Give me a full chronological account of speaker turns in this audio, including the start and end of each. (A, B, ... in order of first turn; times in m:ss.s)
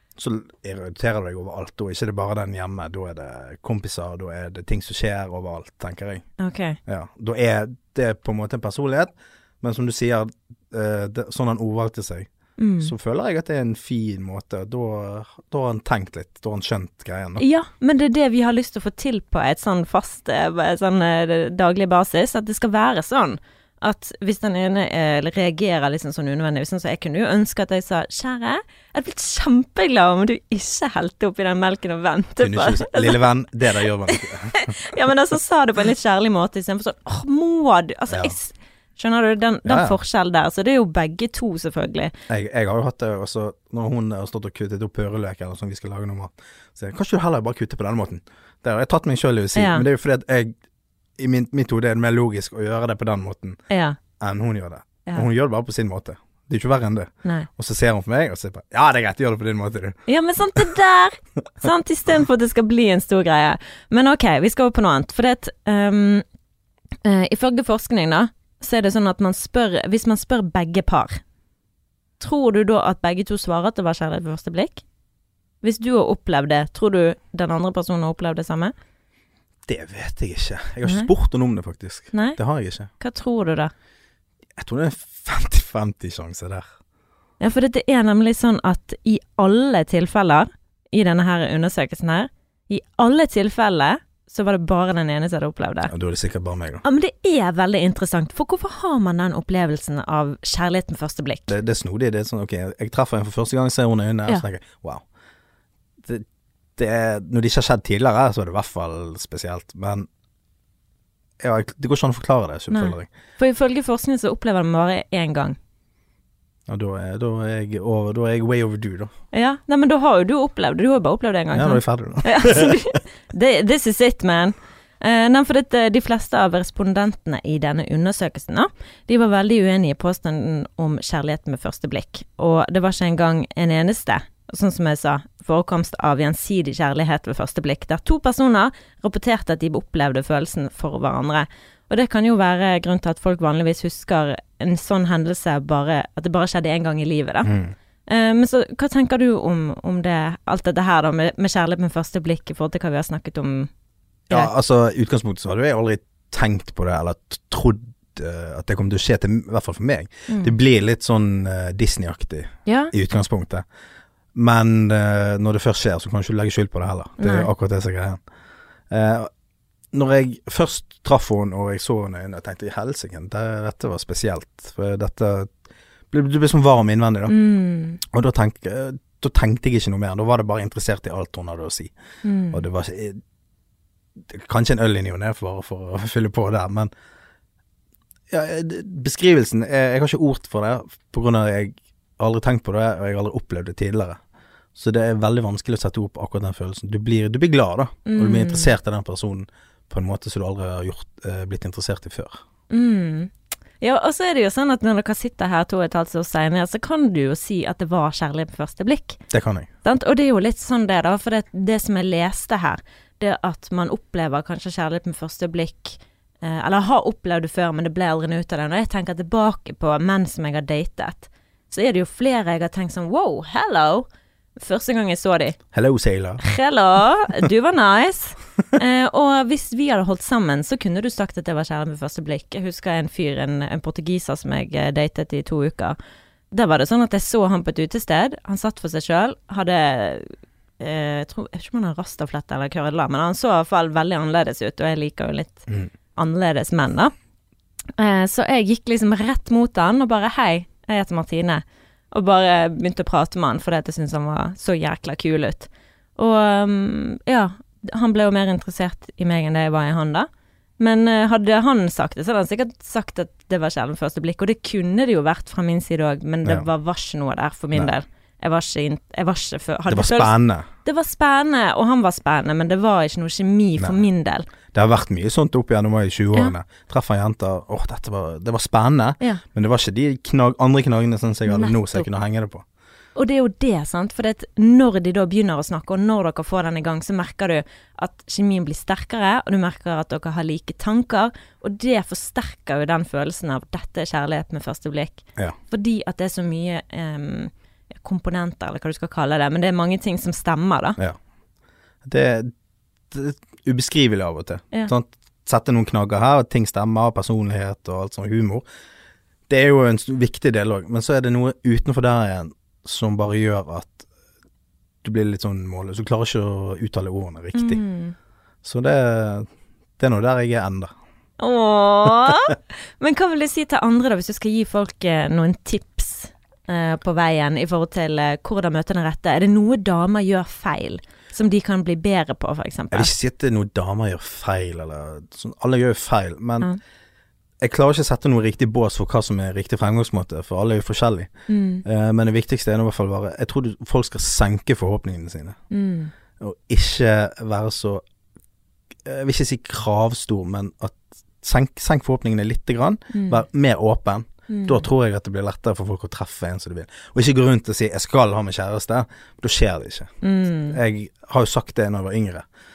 0:00.2-0:06.3 A
0:06.4-0:06.8 B
0:06.8-0:12.3 A
0:12.6-0:12.9 B
0:12.8-0:17.4 A
0:17.4-0:33.2 B
0:32.4-0:34.8 A
0:34.1-0:42.1 B
0:38.1-0:38.3 A
0:39.6-0:40.0 A
0:42.3-0:50.5 A
0:49.5-0:49.8 B
0:51.2-0:53.6 A
0:53.7-0:54.0 B
0:54.2-1:00.0 A
1:00.1-1:06.2 B
1:07.0-1:11.2 B
1:12.2-1:14.8 B
1:15.6-1:18.7 B
1:19.7-1:22.9 A
1:20.8-1:21.1 B
1:22.1-1:22.4 B
1:22.9-1:23.7 B
1:24.6-1:26.7 A
1:27.4-1:35.9 B
1:35.9-1:36.8 A
1:36.8-1:41.5 B
1:41.5-1:45.0 A
1:46.0-1:50.1 A
1:51.4-1:53.1 A
1:52.7-1:55.6 B
1:56.7-1:59.1 A
1:59.3-2:27.5 B
2:01.5-2:02.8 A
2:27.4-2:27.7 A
2:28.1-2:33.7 B
2:34.3-2:43.6 A
2:40.3-2:40.5 B
2:42.6-2:42.9 B
2:44.3-2:48.2 A
2:47.2-2:47.5 B
2:48.9-2:49.3 A
2:49.9-2:55.6 A
2:56.1-2:57.3 A
2:57.3-2:58.0 B
2:58.0-3:01.9 A
3:02.2-3:02.6 B
3:02.5-3:03.2 A
3:04.2-3:06.9 A
3:08.3-3:14.2 A
3:14.7-3:22.4 A
3:18.0-3:18.7 B
3:22.7-3:29.2 B
3:29.3-3:29.7 A
3:29.8-3:44.0 B
3:44.6-3:45.6 B
3:45.7-3:46.4 A
3:46.4-3:56.0 B
3:56.5-4:07.1 B
4:08.0-4:20.3 B
4:20.8-4:34.5 B
4:29.9-4:30.7 A
4:34.7-4:42.6 A
4:41.5-4:42.1 B
4:43.2-5:01.0 B
5:02.0-5:02.5 A
5:03.1-5:08.6 A
5:09.5-5:14.1 A
5:15.0-5:17.8 A
5:17.5-5:18.1 B
5:18.6-5:19.5 A
5:20.0-5:20.9 A
5:21.4-5:33.1 B
5:32.9-5:36.7 A
5:37.6-5:41.3 A
5:41.5-5:41.8 B
5:41.8-5:45.6 A
5:45.7-5:46.1 B
5:46.4-5:48.0 A
5:49.0-6:00.1 A
5:53.1-5:53.4 B
5:54.5-5:54.8 B
6:00.2-6:00.8 B
6:00.7-6:02.4 A